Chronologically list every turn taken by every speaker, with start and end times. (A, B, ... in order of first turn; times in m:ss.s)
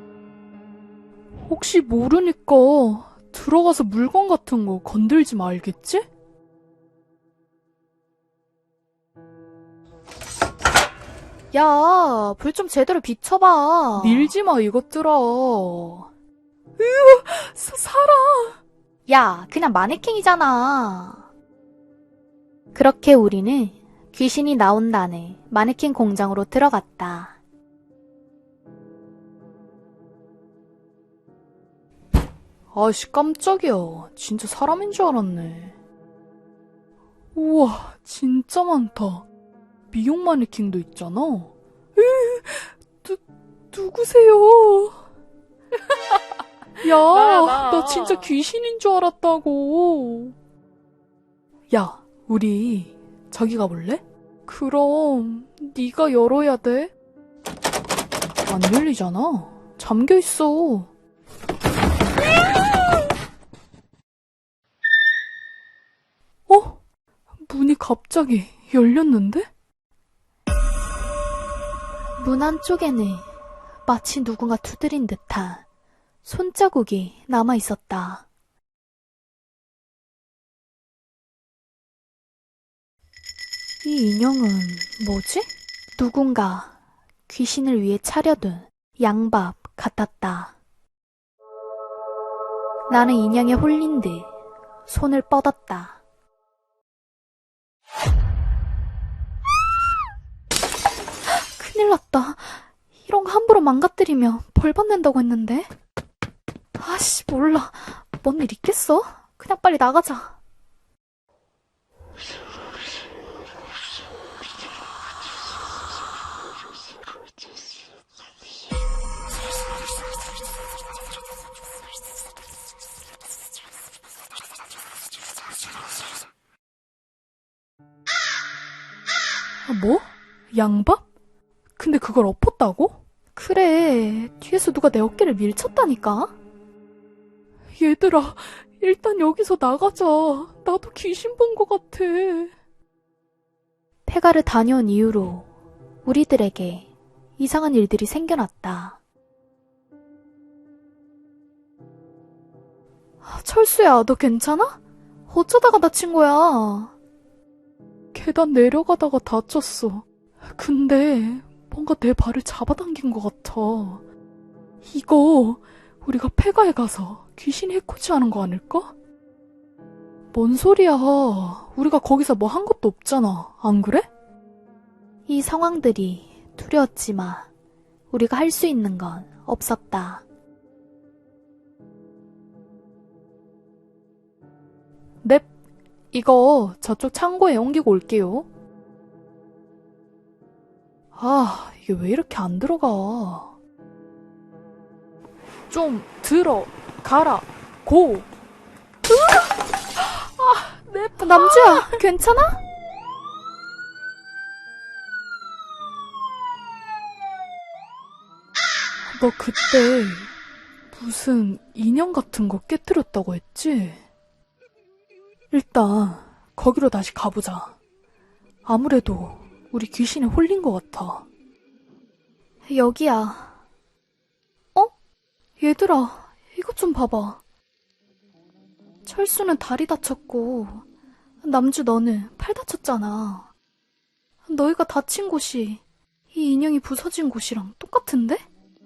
0:01.5-0:06.1 A
0:11.5-0:14.3 B
0:14.0-0:16.1 A
0:16.8-0:18.6 A
0:19.1-0:21.3 B
0:22.7-0:27.4 B
0:32.7-0:35.8 A
0:37.4-0:39.3 A
0:39.9-0:43.2 A
0:43.7-0:45.0 A
0:46.8-0:50.4 A
0:51.7-0:56.9 A
0:58.5-1:00.9 A
1:06.5-1:06.8 A
1:07.5-1:09.5 A
1:12.2-1:13.3 B
1:13.9-1:15.6 B
1:16.2-1:18.2 B
1:23.8-1:26.7 B
1:27.3-1:30.5 B
1:32.9-1:34.3 B
1:34.9-1:36.0 B
1:41.3-1:45.7 B
1:46.8-1:50.3 B
2:09.7-2:11.0 A
2:11.8-2:13.0 A
2:13.4-2:16.3 B
2:17.8-2:22.5 A
2:24.1-2:25.5 B
2:26.0-2:29.0 B
2:33.2-2:34.8 B
2:35.3-2:36.9 B
2:38.1-2:44.0 A
2:44.8-2:48.9 A
2:50.3-2:54.1 A
2:55.3-2:57.5 B
2:58.1-3:00.2 B
3:05.2-3:05.5 A
3:06.1-3:08.5 A
3:11.2-3:13.5 A
3:15.7-3:18.3 A
3:19.1-3:22.0 A
3:21.2-3:22.6 B
3:29.2-3:30.3 A
3:30.9-3:34.0 A
3:35.5-3:37.8 A
3:38.6-3:41.3 A
3:42.7-3:43.5 B
3:45.6-3:47.4 B
3:49.1-3:50.8 B
3:51.4-3:53.5 B
3:54.5-3:55.8 B
3:56.3-3:58.4 B